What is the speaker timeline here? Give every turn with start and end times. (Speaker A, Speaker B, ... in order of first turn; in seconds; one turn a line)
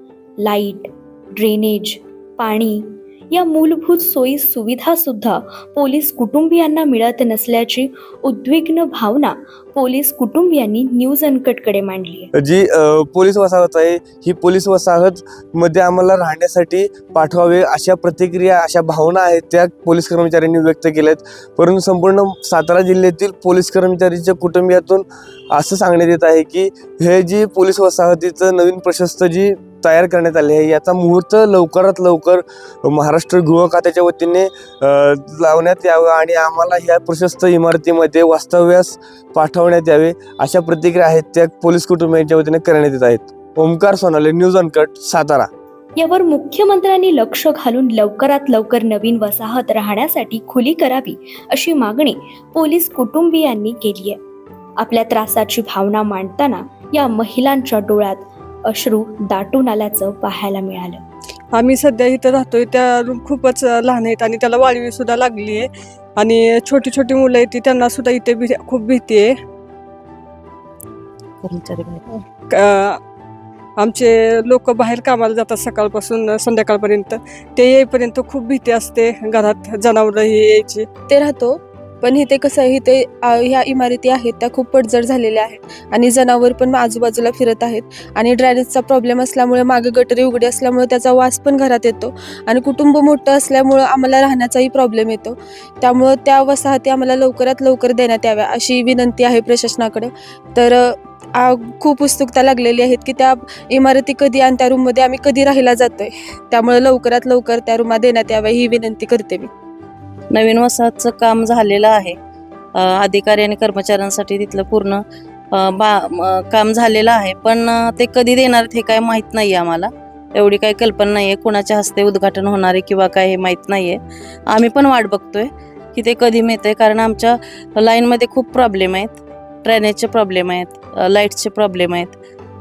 Speaker A: 0.4-12.3
Speaker B: 12.4-45.5
Speaker A: 46.0-54.2
Speaker A: 54.8-61.0
Speaker C: 61.5-69.3
Speaker D: 71.4-72.0
Speaker C: 72.5-73.0
Speaker C: 73.8-80.8
Speaker E: 81.1-100.9
Speaker E: 101.4-109.5
Speaker D: 110.3-112.2
Speaker D: 112.8-132.2